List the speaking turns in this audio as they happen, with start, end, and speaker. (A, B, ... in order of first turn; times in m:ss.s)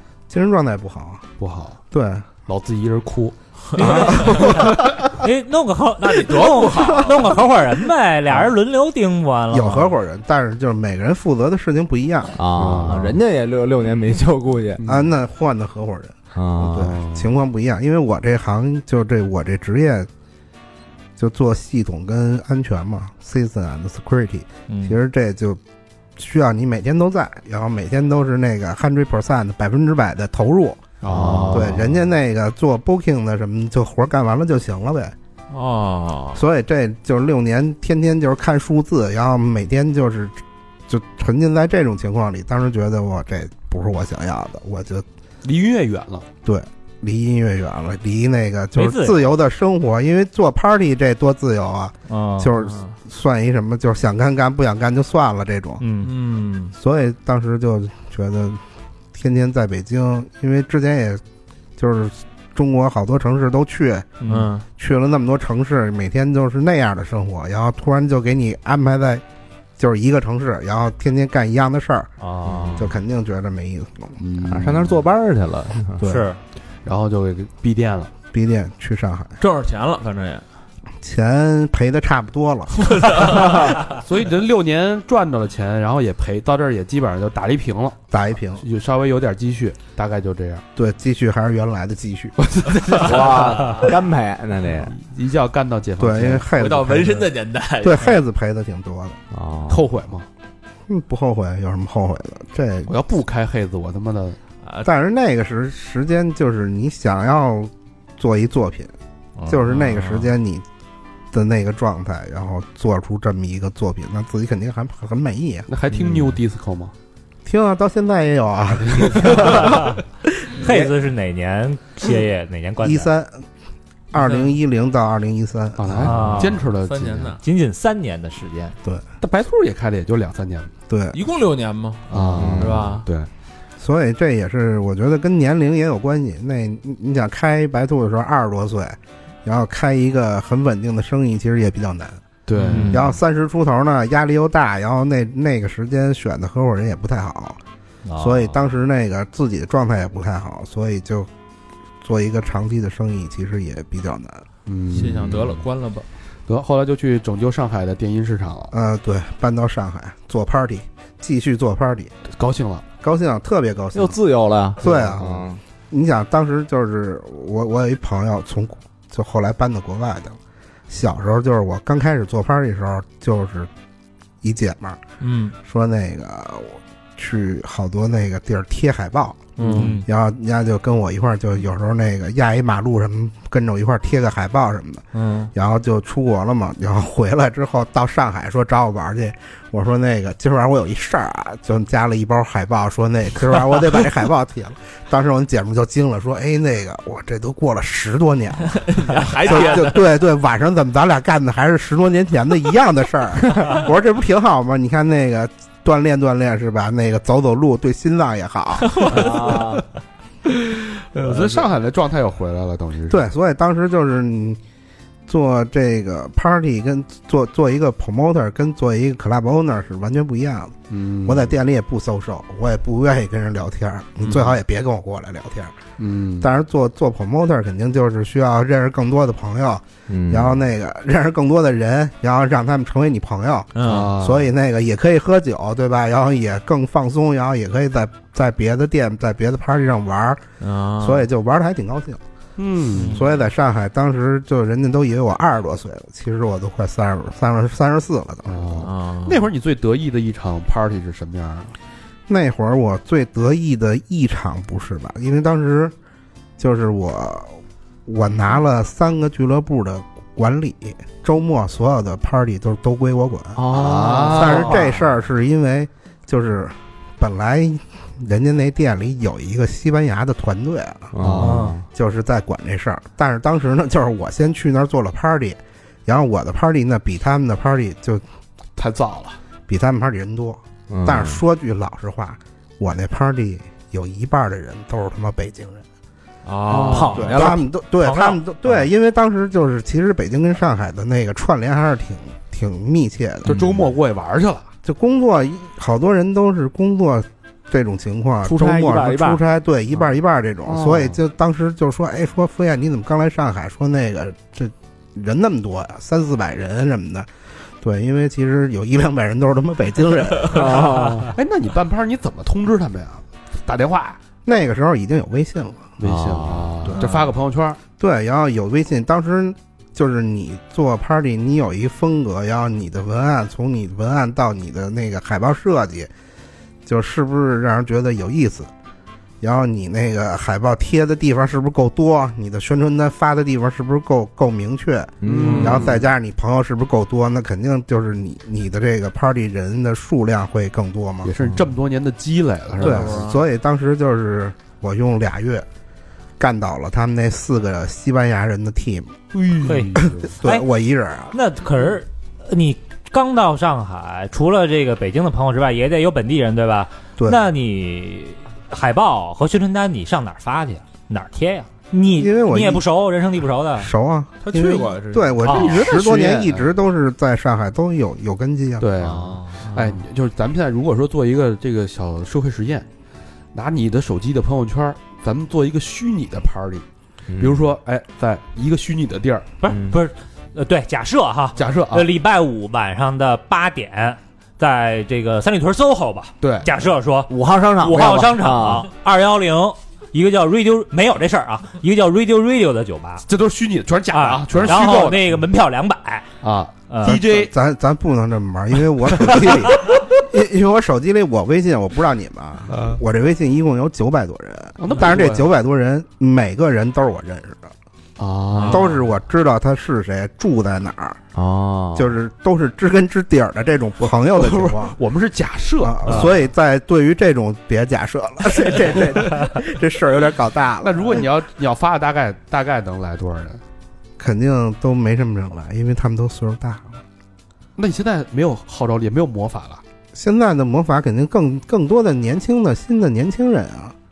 0:00.3-0:01.2 A
0:01.4-0:01.8 B
0:01.9-0:02.3 A
0:02.4-0:04.9 B
0:03.7-0:04.5 C
0:03.7-0:09.9 D
0:06.0-0:07.4 C
0:09.5-0:12.4 A
0:12.4-0:14.8 E
0:12.6-0:13.1 B
0:14.8-0:15.1 B
0:14.8-0:20.1 A
0:16.3-0:16.9 E
0:16.8-0:17.3 B
0:21.2-0:25.6 A
0:24.7-0:25.0 D
0:26.2-0:30.9 A
0:31.0-0:31.8 B
0:31.1-0:31.9 E
0:31.5-0:35.1 A
0:35.5-0:36.4 C
0:36.3-0:45.0 A
0:45.4-0:46.3 B
0:46.4-0:55.8 A
0:48.7-0:49.2 D
0:52.1-0:52.5 D
0:52.6-0:52.9 C
0:55.8-0:56.1 D
0:56.0-0:56.7 C
0:56.7-0:58.6 A
0:59.1-1:01.2 A
1:01.8-1:04.1 A
1:04.2-1:04.5 D
1:04.2-1:04.6 C
1:04.8-1:09.2 A
1:09.8-1:12.1 A
1:12.2-1:12.8 D
1:12.4-1:12.9 E
1:12.8-1:14.2 A
1:14.2-1:15.0 B
1:14.4-1:16.0 E
1:16.0-1:16.3 A
1:16.0-1:16.4 D
1:16.8-1:18.1 B
1:18.3-1:19.4 A
1:19.4-1:20.4 C
1:21.0-1:23.0 A
1:22.8-1:23.5 C
1:23.9-1:28.0 B
1:28.1-1:28.6 A
1:28.6-1:30.6 B
1:30.8-1:32.3 A
1:32.6-1:33.9 B
1:32.9-1:33.3 C
1:32.9-1:34.9 E
1:34.9-1:36.5 B
1:36.0-1:39.2 A
1:36.5-1:38.1 C
1:39.3-1:39.9 E
1:39.7-1:40.2 B
1:40.9-1:42.9 A
1:42.9-1:44.4 B
1:44.6-1:44.9 C
1:44.8-1:48.9 A
1:49.4-1:50.3 C
1:49.5-1:50.6 A
1:51.3-1:55.7 A
1:55.7-1:56.9 B
1:57.4-2:00.9 A
1:59.0-1:59.3 B
2:00.6-2:03.1 D
2:02.8-2:03.4 A
2:04.1-2:06.1 A
2:04.2-2:04.5 C
2:05.8-2:07.4 B
2:06.0-2:06.6 D
2:06.2-2:07.4 C
2:07.4-2:08.8 D
2:09.2-2:10.7 B
2:10.9-2:11.2 A
2:11.1-2:13.1 C
2:12.1-2:13.3 B
2:12.1-2:13.0 E
2:13.8-2:22.2 A
2:22.5-2:23.0 B
2:22.6-2:23.0 C
2:22.6-2:23.1 D
2:22.9-2:27.6 A
2:28.0-2:28.5 D
2:28.2-2:31.3 A
2:32.0-2:34.4 A
2:34.6-2:35.6 B
2:34.9-2:36.0 C
2:36.5-2:38.7 B
2:38.7-2:42.1 A
2:42.3-2:42.8 B
2:43.0-2:44.2 A
2:43.9-2:45.6 E
2:44.8-2:50.4 A
2:50.9-2:53.7 A
2:54.4-2:55.0 A
2:55.2-2:55.5 C
2:55.6-3:29.0 A
2:59.6-3:00.0 C
2:59.7-3:00.0 D
3:05.1-3:05.5 C
3:18.7-3:20.1 C
3:28.8-3:29.8 C
3:29.1-3:29.8 E
3:29.1-3:29.6 B
3:30.4-3:33.3 B
3:33.1-3:34.6 A
3:35.3-3:45.8 A
3:40.9-3:41.5 B
3:46.0-3:46.5 B
3:46.4-4:00.4 A
3:50.1-3:50.6 E
3:53.8-3:54.1 C
3:53.8-3:54.5 B
4:00.6-4:01.3 C
4:01.0-4:02.2 A
4:02.6-4:03.2 B
4:03.0-4:08.9 A
4:08.4-4:11.7 B
4:08.8-4:09.5 C
4:12.3-4:15.9 A
4:16.6-4:23.6 A
4:23.6-4:24.9 E
4:23.7-4:24.9 B
4:24.3-4:31.2 A
4:31.1-4:31.8 E
4:31.2-4:31.6 B
4:31.4-4:31.7 D
4:31.9-4:38.2 A
4:38.8-4:39.4 B
4:39.7-4:45.8 A
4:40.9-4:41.4 E
4:46.4-4:47.5 C
4:46.7-4:47.2 B
4:46.7-4:47.6 E
4:47.1-4:53.5 A
4:48.0-4:48.4 D
4:53.4-4:54.7 B
4:53.5-4:53.8 E
4:54.8-5:10.9 A
4:58.4-4:59.4 E
5:00.7-5:01.1 E
5:10.5-5:11.3 E
5:11.2-5:14.2 B
5:14.4-5:15.9 A
5:16.0-5:17.8 B
5:16.0-5:17.0 E
5:18.0-5:26.1 A
5:26.8-5:28.7 A
5:29.4-5:41.3 A
5:35.2-5:35.9 E
5:35.2-5:36.0 B
5:35.5-5:35.8 C
5:41.2-5:43.3 B
5:42.8-5:43.4 C
5:42.8-5:45.7 A
5:46.4-5:49.2 A
5:49.3-5:50.3 B
5:49.6-5:50.6 D
5:50.0-5:51.3 A
5:51.3-6:03.9 D
6:02.1-6:02.8 A
6:03.8-6:08.9 A
6:04.4-6:05.8 C
6:05.4-6:05.7 D
6:05.5-6:06.7 B
6:08.8-6:12.8 B
6:09.0-6:09.6 D
6:09.7-6:10.0 C
6:13.5-6:16.8 B
6:17.3-6:17.6 E
6:17.4-6:19.5 B
6:19.6-6:33.2 D
6:19.7-6:20.0 E
6:21.6-6:22.1 B
6:26.4-6:26.7 B
6:27.3-6:28.9 E
6:33.3-6:35.4 B
6:34.1-6:36.3 D
6:36.4-6:37.5 B
6:36.9-6:37.2 D
6:37.0-6:47.7 A
6:42.7-6:43.0 B
6:44.8-6:45.5 B
6:48.2-6:48.9 B
6:48.5-6:48.9 C
6:48.7-6:51.2 A
6:51.3-6:52.1 E
6:51.9-6:55.0 A
6:54.3-6:56.4 B
6:55.8-7:01.2 A
6:58.9-6:59.1 B
7:00.8-7:03.6 B
7:04.2-7:07.0 A
7:07.8-7:09.8 B
7:10.1-7:13.9 A